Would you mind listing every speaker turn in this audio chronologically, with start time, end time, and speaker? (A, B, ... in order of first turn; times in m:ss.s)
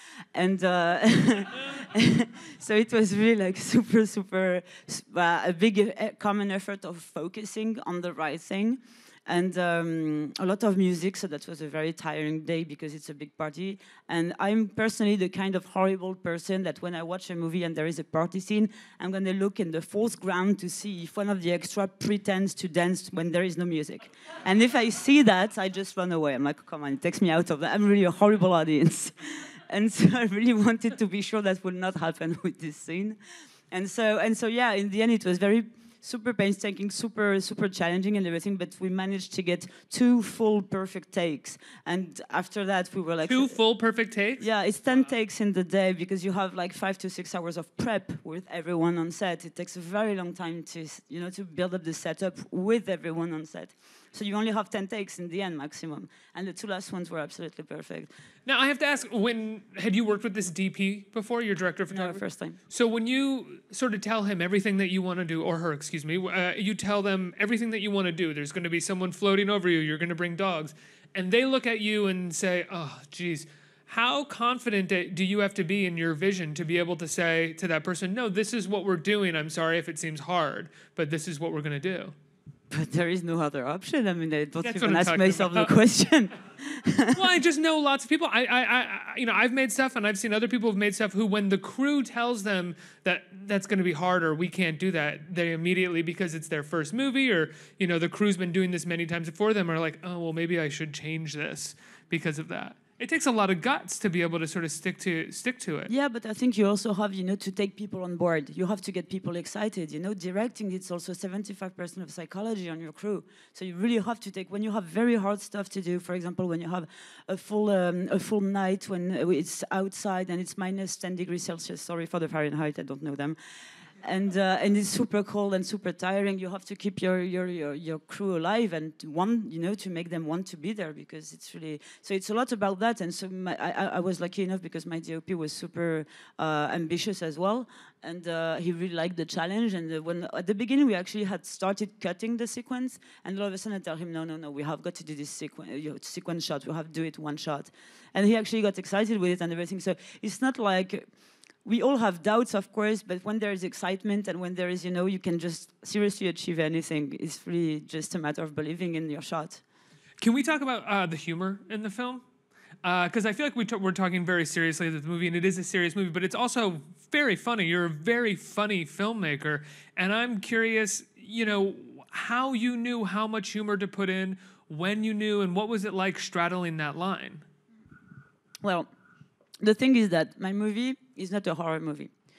0:00.3-0:33.2 A
0:33.7-0:43.6 A
0:43.2-0:44.4 B
0:44.4-0:58.1 A
0:58.4-1:22.1 B
1:01.9-1:02.6 A
1:22.7-1:27.2 A
1:24.6-1:25.7 B
1:27.1-1:45.9 B
1:45.9-2:03.4 A
2:04.0-2:31.0 A
2:31.6-2:39.6 A
2:40.2-2:42.2 B
2:42.8-2:57.4 B
2:58.6-2:58.9 A
2:59.6-3:02.1 A